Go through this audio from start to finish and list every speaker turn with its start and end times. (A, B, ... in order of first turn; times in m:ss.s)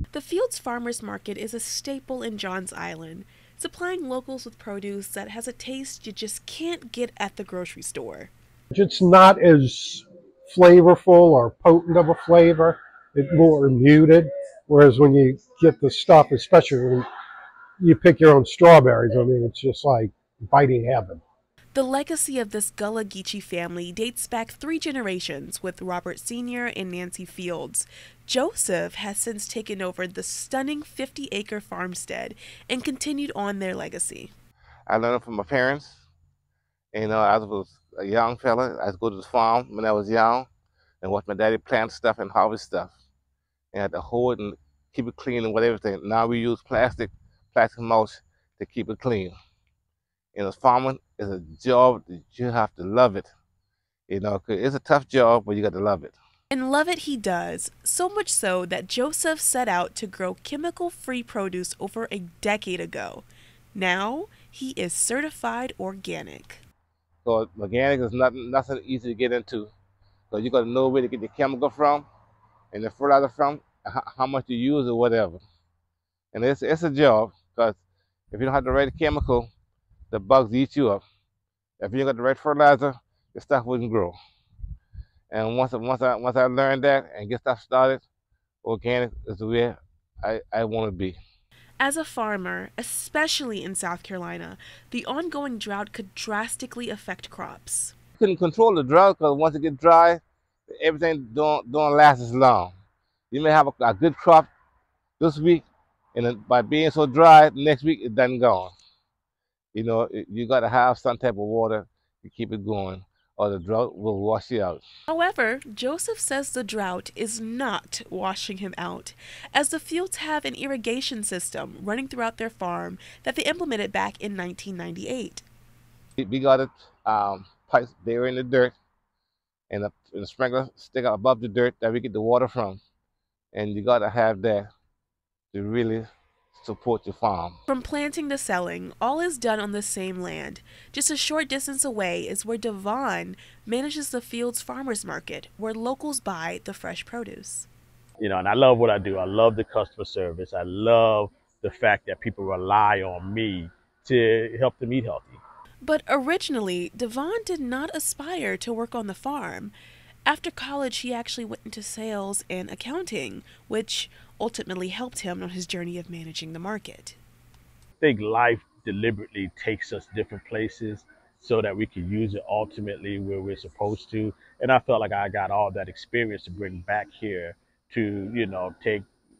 0:00.1-0:08.3 A
0:08.7-0:17.1 B
0:17.8-0:21.2 B
0:21.7-0:34.3 A
0:34.9-0:36.0 C
0:36.9-0:40.5 C
0:41.0-0:42.9 C
0:43.7-0:49.3 C
0:50.3-0:53.3 C
0:54.1-0:56.2 C
0:56.5-1:06.6 A
1:07.2-1:09.7 C
1:10.3-1:12.1 C
1:12.7-1:15.4 C
1:16.3-1:17.8 C
1:18.3-1:19.5 C
1:20.1-1:21.0 C
1:21.8-1:24.2 C
1:25.3-1:28.0 C
1:28.6-1:31.2 C
1:31.8-1:37.9 A
1:38.2-1:42.7 C
1:43.3-1:44.5 C
1:45.2-1:48.7 C
1:49.7-1:54.8 C
1:55.1-2:05.4 A
2:06.2-2:08.8 C
2:09.7-2:12.8 C
2:13.5-2:14.7 C
2:15.5-2:17.6 C
2:17.7-2:27.7 A
2:28.2-2:35.4 D
2:35.8-2:39.7 A
2:40.3-2:47.2 A
2:48.0-2:59.0 D